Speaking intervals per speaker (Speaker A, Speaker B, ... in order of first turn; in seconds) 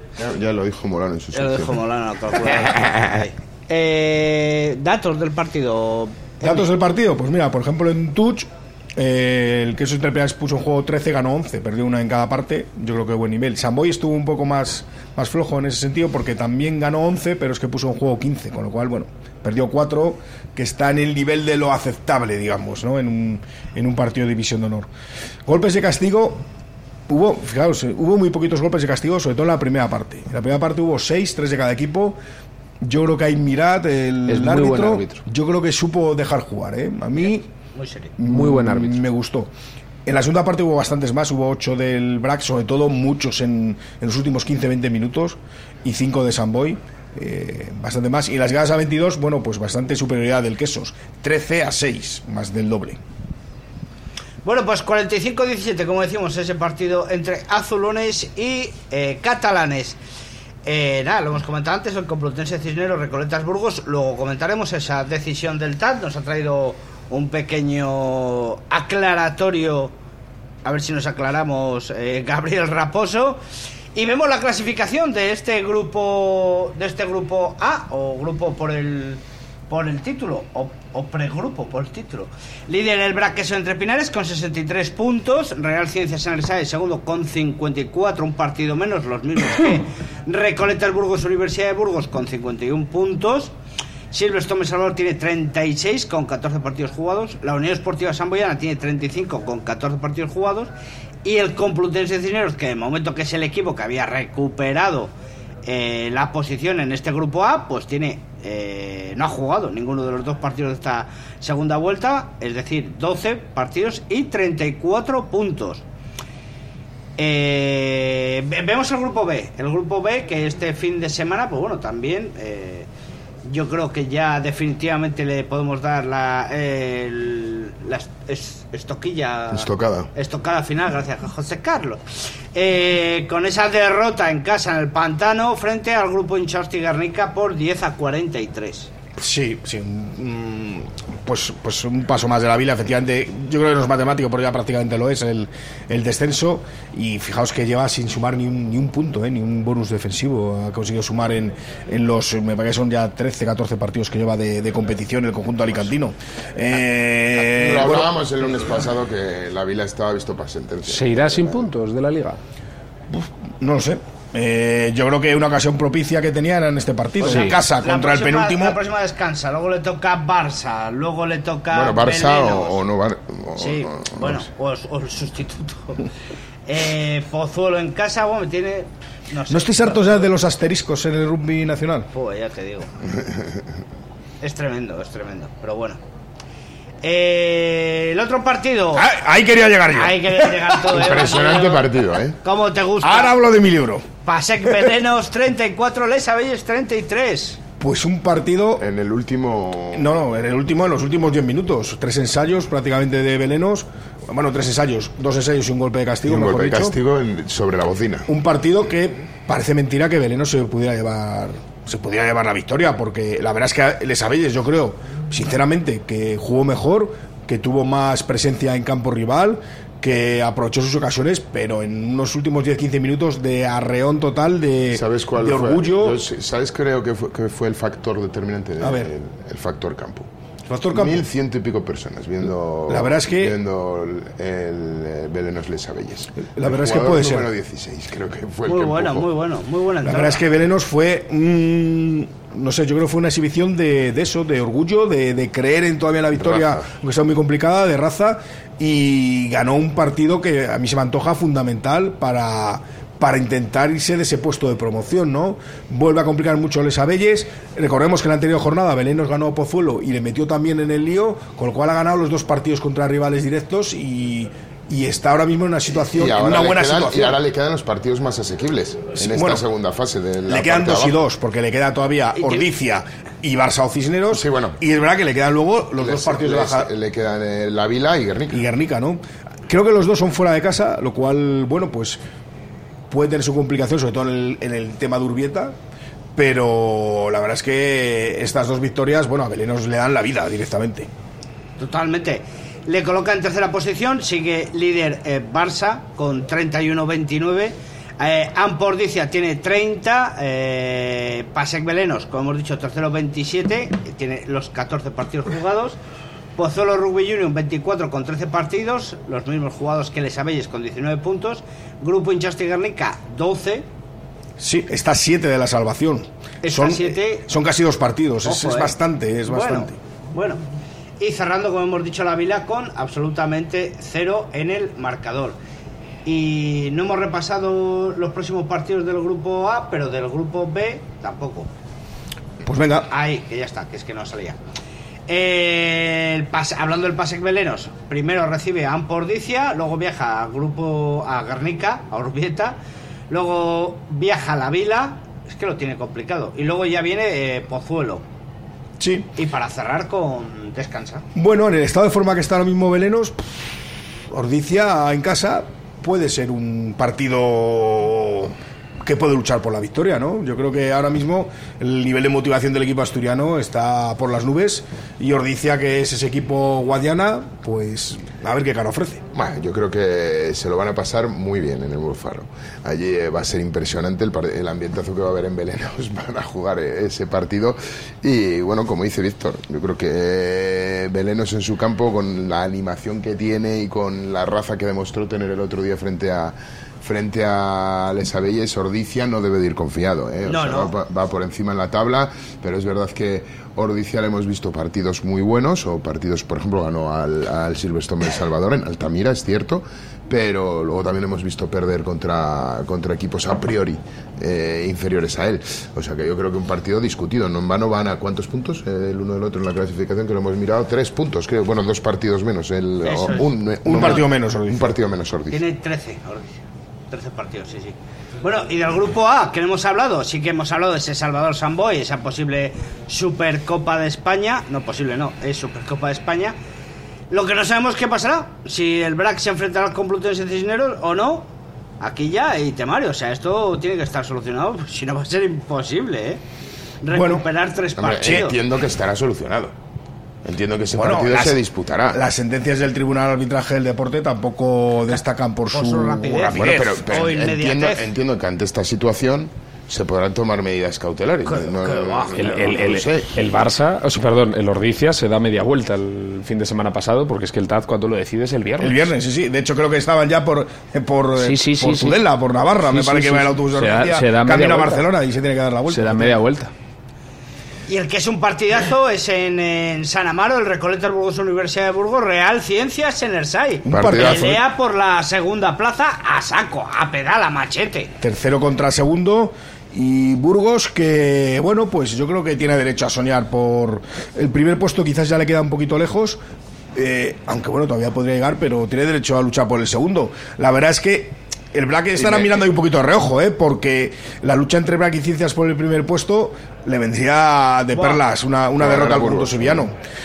Speaker A: 0.2-1.8, 129.5-130.1, 157.5-161.6, 171.7-174.4, 183.1-183.5, 190.9-192.4, 198.8-200.2, 206.2-208.3, 224.9-230.3, 230.9-239.3, 246.3-246.9, 265.9-271.2, 274.3-274.8, 276.0-278.6, 369.3-415.6, 438.0-439.8, 440.4-442.2, 446.5-453.4, 473.9-474.6, 492.2-492.5, 498.8-499.9
Speaker B: 1.3-6.7, 37.7-38.1, 54.4-60.0, 60.7-69.9, 70.7-73.4, 74.0-93.5, 94.1-100.7, 101.2-105.1, 105.7-115.8, 117.2-122.9, 123.5-132.0, 132.6-138.9, 167.2-172.8, 173.6-176.1, 176.7-180.2, 182.1-182.9, 184.4-186.0, 187.0-189.1, 189.9-191.8, 192.4-193.4, 194.2-197.6, 238.7-240.4, 272.4-272.7, 291.8-306.0, 306.6-313.9, 316.6-317.5, 318.4-318.9, 319.5-320.6, 321.2-325.6, 326.2-331.7, 333.1-334.6, 335.3-342.8, 343.3-348.2, 349.4-351.2, 390.4-390.9, 413.1-413.5, 415.5-426.6, 427.3-431.5, 432.0-436.4, 437.0-438.6, 445.7-448.0, 451.5-452.1, 467.9-478.1
Speaker C: 6.4-24.9, 25.5-26.4, 27.1-32.2, 32.8-37.5, 38.2-39.5, 40.1-53.0, 139.2-158.1, 163.1-168.8, 179.5-182.1, 188.9-190.8, 193.0-194.1, 194.7-194.9, 197.8-198.8, 199.9-206.9, 208.3-226.2, 228.8-229.1, 230.7-231.2, 232.9-233.6, 236.4-237.5, 240.0-267.4, 269.2-269.6, 270.5-276.9, 278.5-282.2, 283.1-285.8, 286.4-291.1, 314.6-320.0, 332.6-333.1, 349.0-349.3, 351.4-353.4, 354.3-369.2, 413.8-414.9, 437.1-437.4, 440.9-441.6, 442.1-447.2, 458.8-466.4, 473.9-474.6, 478.2-486.4, 486.9-500.0
Speaker D: 34.3-35.2, 38.3-39.0, 160.9-162.4, 167.2-167.6, 452.2-459.1, 461.4-462.2, 462.8-465.1, 465.9-466.7